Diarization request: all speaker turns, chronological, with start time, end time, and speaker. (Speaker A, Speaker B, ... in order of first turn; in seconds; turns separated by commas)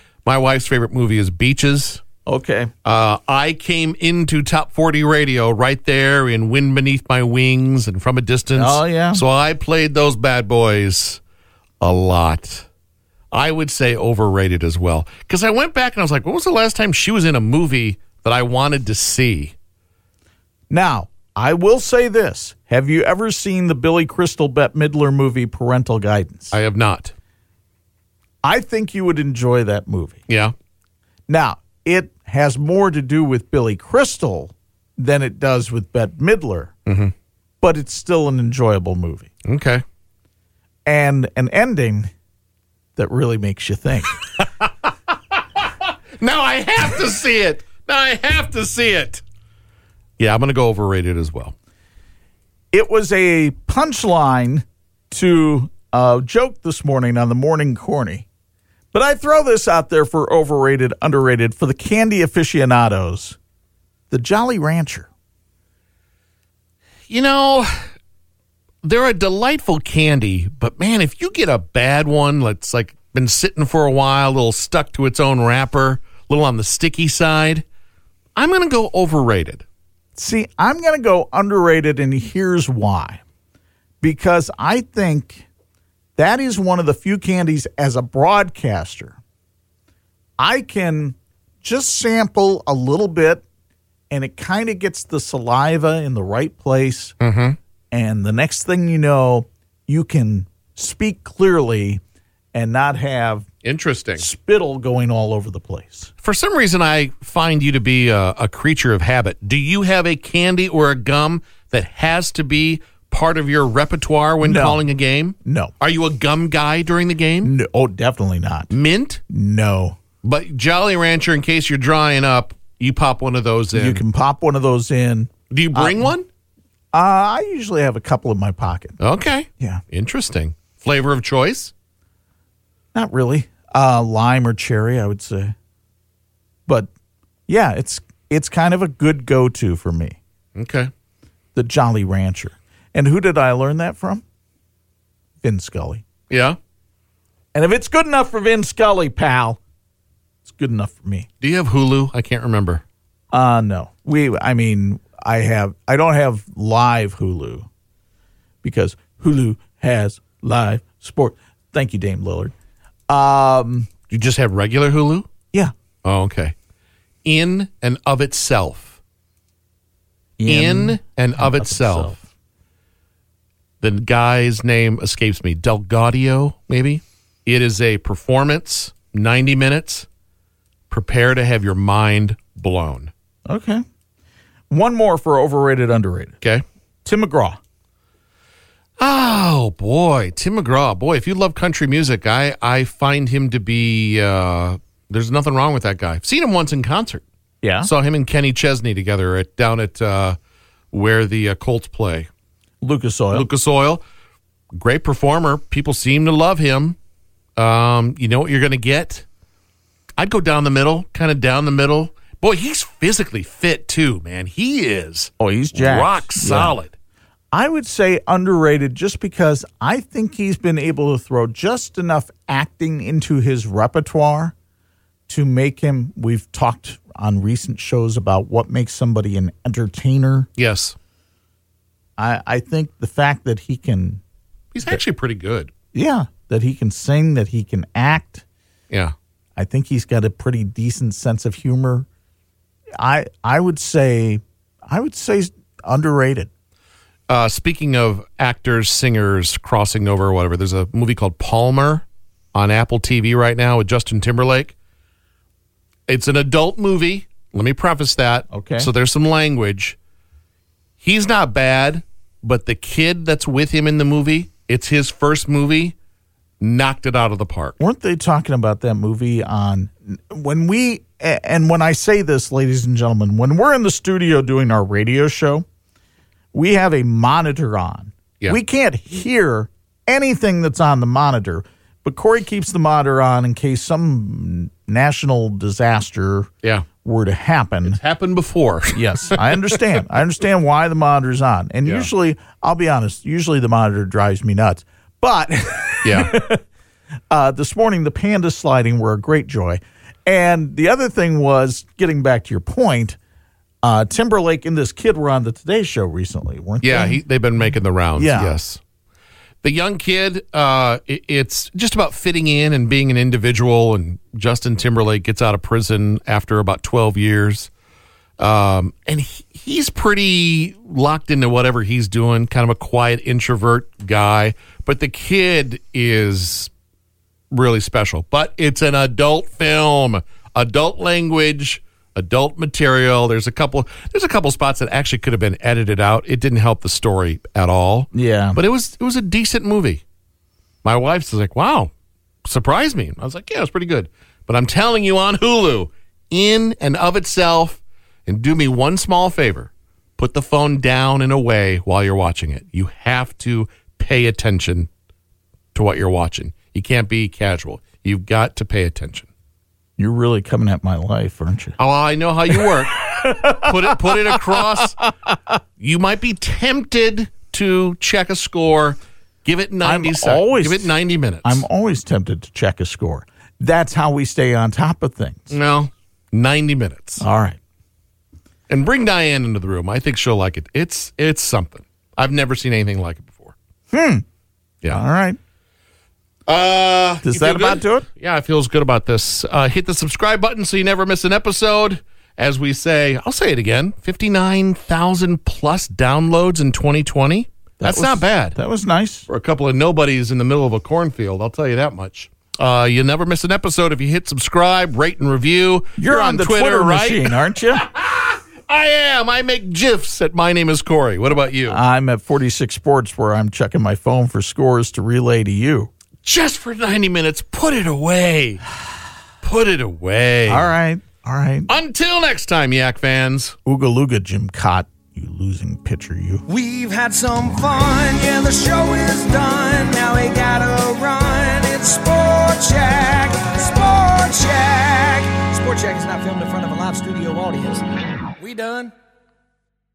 Speaker A: 0.2-2.0, Speaker B: 2.2-2.7, Speaker A: 2.8-11.2, Speaker B: 8.5-9.2, Speaker A: 11.8-12.7, Speaker A: 13.3-19.5, Speaker B: 20.7-26.5, Speaker A: 26.5-27.1, Speaker B: 28.4-30.2, Speaker A: 30.3-30.5, Speaker B: 31.3-36.7, Speaker A: 36.9-37.1, Speaker B: 37.6-39.3, Speaker A: 39.4-39.8, Speaker B: 40.9-42.1, Speaker B: 43.0-44.2, Speaker A: 44.4-49.2, Speaker A: 50.2-51.5, Speaker B: 52.7-58.2, Speaker B: 58.9-63.4, Speaker B: 64.1-65.1, Speaker A: 67.1-67.9, Speaker A: 68.8-77.6, Speaker A: 78.3-79.6, Speaker B: 80.1-83.2, Speaker B: 84.0-85.4, Speaker B: 86.2-89.2, Speaker B: 90.4-93.4, Speaker B: 94.1-97.2, Speaker A: 97.2-97.6, Speaker B: 97.9-102.0, Speaker B: 102.5-103.5, Speaker A: 103.6-104.2, Speaker B: 104.2-106.1, Speaker A: 106.2-117.5, Speaker B: 114.4-114.8, Speaker B: 115.4-115.7, Speaker B: 117.4-118.7, Speaker A: 118.7-119.2, Speaker B: 119.3-120.0, Speaker A: 120.2-124.0, Speaker B: 123.7-126.1, Speaker A: 125.5-126.3, Speaker B: 126.9-129.0, Speaker A: 129.0-131.7, Speaker B: 132.9-135.5, Speaker B: 137.5-140.2, Speaker A: 140.5-140.9, Speaker B: 141.5-144.2, Speaker B: 145.4-146.0, Speaker A: 146.3-146.6, Speaker B: 147.5-149.6, Speaker B: 150.4-151.3, Speaker A: 151.4-152.8, Speaker B: 153.3-157.7, Speaker B: 158.6-162.5, Speaker B: 163.1-163.9, Speaker A: 164.1-165.3, Speaker A: 166.0-166.6, Speaker A: 167.2-169.0, Speaker B: 170.4-172.2, Speaker A: 170.4-172.2, Speaker A: 173.8-180.1, Speaker A: 180.9-183.1, Speaker B: 183.4-183.8, Speaker B: 184.7-186.4, Speaker B: 187.0-187.6, Speaker A: 189.0-197.2, Speaker B: 197.6-197.9, Speaker A: 197.8-200.4, Speaker A: 200.9-202.3, Speaker B: 202.8-203.5, Speaker A: 203.3-204.0, Speaker A: 204.7-207.0, Speaker A: 207.6-209.2, Speaker A: 210.2-216.9, Speaker B: 215.4-216.8, Speaker B: 217.5-224.5, Speaker B: 225.3-230.5, Speaker A: 230.6-230.9, Speaker B: 232.2-234.2, Speaker A: 234.7-235.7, Speaker B: 235.9-238.4, Speaker A: 238.9-239.1, Speaker B: 239.6-242.1, Speaker B: 243.0-246.5, Speaker A: 247.3-254.7, Speaker A: 256.1-260.0, Speaker B: 258.5-258.9, Speaker A: 261.0-265.9, Speaker A: 266.6-267.8, Speaker B: 267.8-275.6, Speaker B: 276.5-286.5, Speaker B: 287.0-288.0, Speaker A: 287.8-290.0, Speaker B: 288.9-296.6, Speaker A: 291.8-292.1, Speaker A: 296.0-296.4, Speaker B: 297.3-303.2, Speaker B: 303.8-307.2, Speaker A: 306.8-308.8, Speaker B: 308.1-308.6, Speaker A: 309.6-317.7, Speaker A: 318.4-326.7, Speaker A: 327.5-340.0, Speaker B: 338.1-338.6, Speaker A: 340.8-341.9, Speaker A: 342.4-354.9, Speaker A: 355.7-359.3, Speaker B: 360.0-361.8, Speaker A: 361.8-365.0, Speaker B: 362.5-364.6, Speaker A: 365.8-371.6, Speaker B: 369.8-375.6, Speaker A: 375.5-377.2, Speaker B: 377.2-377.6, Speaker A: 378.7-383.5, Speaker B: 383.9-384.2, Speaker B: 384.9-385.4, Speaker A: 386.5-398.6, Speaker B: 387.2-388.1, Speaker B: 397.8-399.3, Speaker A: 399.3-411.8, Speaker B: 406.0-407.9, Speaker B: 411.7-415.9, Speaker A: 416.2-418.6, Speaker A: 419.4-420.7, Speaker B: 420.5-421.7, Speaker A: 421.7-423.6, Speaker B: 423.6-426.4, Speaker C: 426.5-437.8, Speaker C: 438.4-438.9